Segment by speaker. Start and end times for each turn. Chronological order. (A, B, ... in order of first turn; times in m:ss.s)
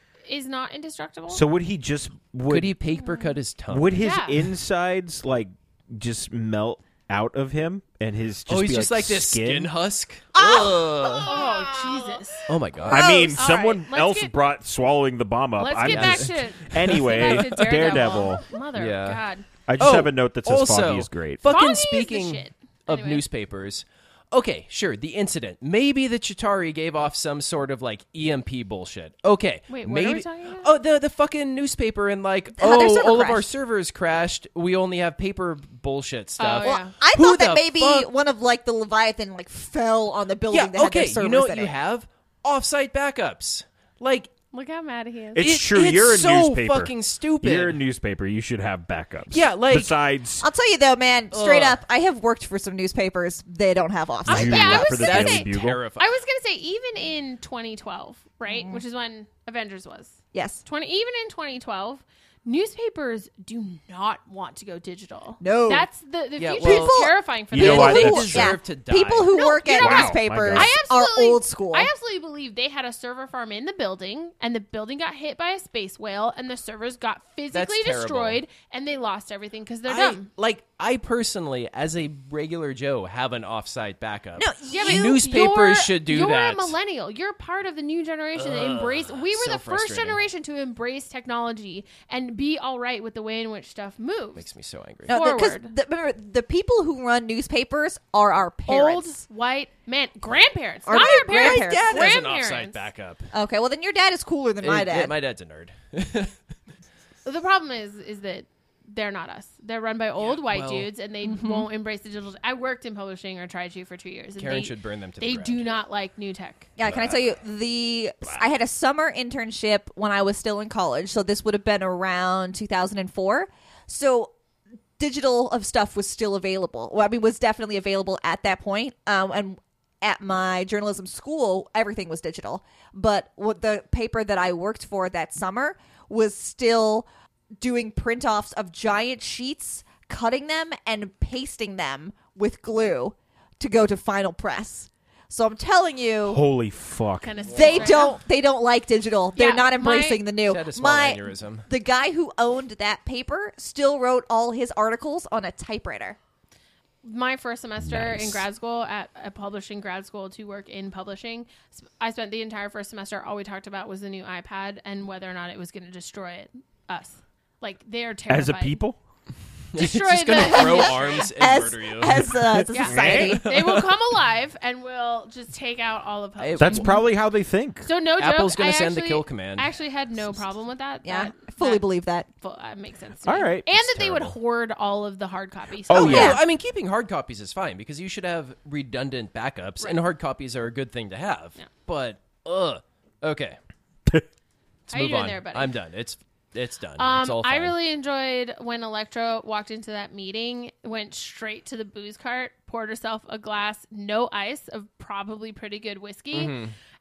0:00.3-0:01.4 A
0:01.3-0:02.8 B
0:02.5-0:04.0 C
0:03.0-0:03.3 A
0:03.7-0:09.7 B
0:04.0-0:04.4 A
0:08.5-0:11.3 C
0:10.4-0:12.2 D
0:11.2-0:14.3 A
0:12.5-0:13.0 C
0:12.9-0:18.4 B
0:12.9-0:13.4 D
0:15.6-0:19.5 A
0:15.9-0:17.6 C
0:18.8-0:19.2 C
0:19.7-0:21.6 B
0:19.8-0:38.1 C
0:21.5-0:23.2 A
0:29.7-0:30.7 A
0:32.6-0:33.5 D
0:36.4-0:36.9 A
0:36.6-0:41.7 D
0:40.5-0:44.3 C
0:44.5-0:45.5 A
0:45.4-0:50.5 B
0:45.4-0:47.8 C
0:49.3-0:50.0 C
0:50.4-0:54.8 D
0:51.3-0:51.8 C
0:54.3-1:08.2 A
0:54.3-0:55.8 B
0:54.4-0:56.1 C
0:58.5-0:58.8 D
1:00.3-1:00.6 D
1:05.4-1:05.9 D
1:06.4-1:09.4 C
1:06.6-1:11.9 D
1:07.5-1:08.6 B
1:09.3-1:20.3 A
1:09.7-1:10.7 B
1:17.5-1:18.4 C
1:19.9-1:26.7 C
1:24.4-1:25.4 D
1:24.7-1:34.4 A
1:28.4-1:30.2 C
1:34.4-1:35.1 C
1:35.1-1:39.2 D
1:35.1-1:35.7 A
1:38.7-1:42.9 A
1:40.9-1:42.1 D
1:41.2-1:43.3 C
1:43.3-1:45.1 D
1:44.6-1:46.4 C
1:47.2-1:56.7 A
1:50.2-1:50.9 C
1:51.2-1:51.7 D
1:54.4-1:55.7 C
1:56.8-2:04.3 D
1:56.8-1:57.4 C
2:05.0-2:17.1 D
2:17.6-2:26.4 D
2:26.2-2:27.4 B
2:27.2-2:28.2 A
2:27.4-2:28.1 C
2:27.5-2:36.2 D
2:29.3-2:30.3 A
2:30.4-2:31.7 C
2:37.0-2:48.8 A
2:37.8-2:38.4 B
2:48.3-2:49.0 B
2:49.7-2:52.4 C
2:49.8-2:51.3 A
2:50.4-2:53.5 D
2:52.7-2:57.0 A
2:52.8-2:53.4 B
2:53.0-2:53.9 C
2:56.4-2:57.0 C
2:56.6-2:57.9 B
2:57.8-3:06.4 A
2:58.2-2:59.7 C
3:01.0-3:02.3 D
3:03.2-3:04.3 B
3:05.9-3:06.4 B
3:05.9-3:13.6 C
3:06.0-3:06.4 D
3:14.9-3:15.8 A
3:14.9-3:17.8 C
3:17.0-3:26.6 A
3:26.3-3:26.7 C